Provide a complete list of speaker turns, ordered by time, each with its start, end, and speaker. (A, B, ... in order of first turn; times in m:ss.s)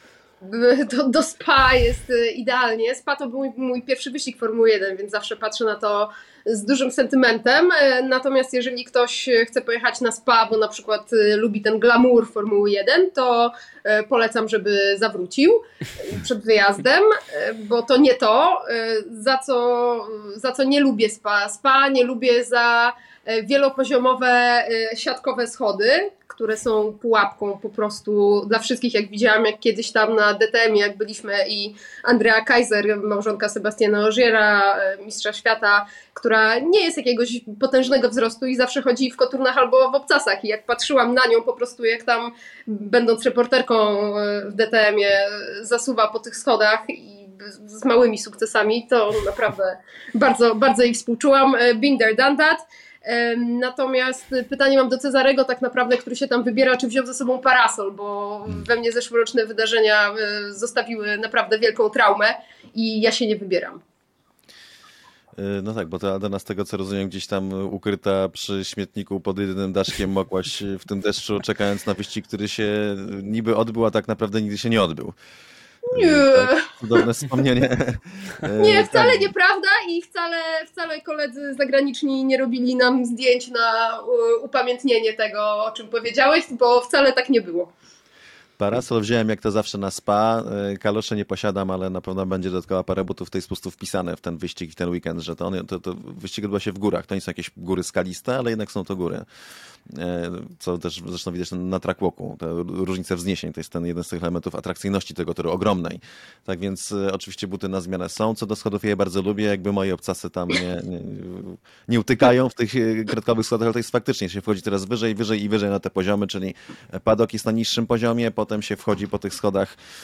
0:00.4-1:03.8 A
1:05.4-1:15.2 B
1:15.9-1:17.1 A
1:15.9-1:19.3 B
1:18.6-1:27.7 A
1:28.6-1:39.2 B
1:39.9-1:59.8 B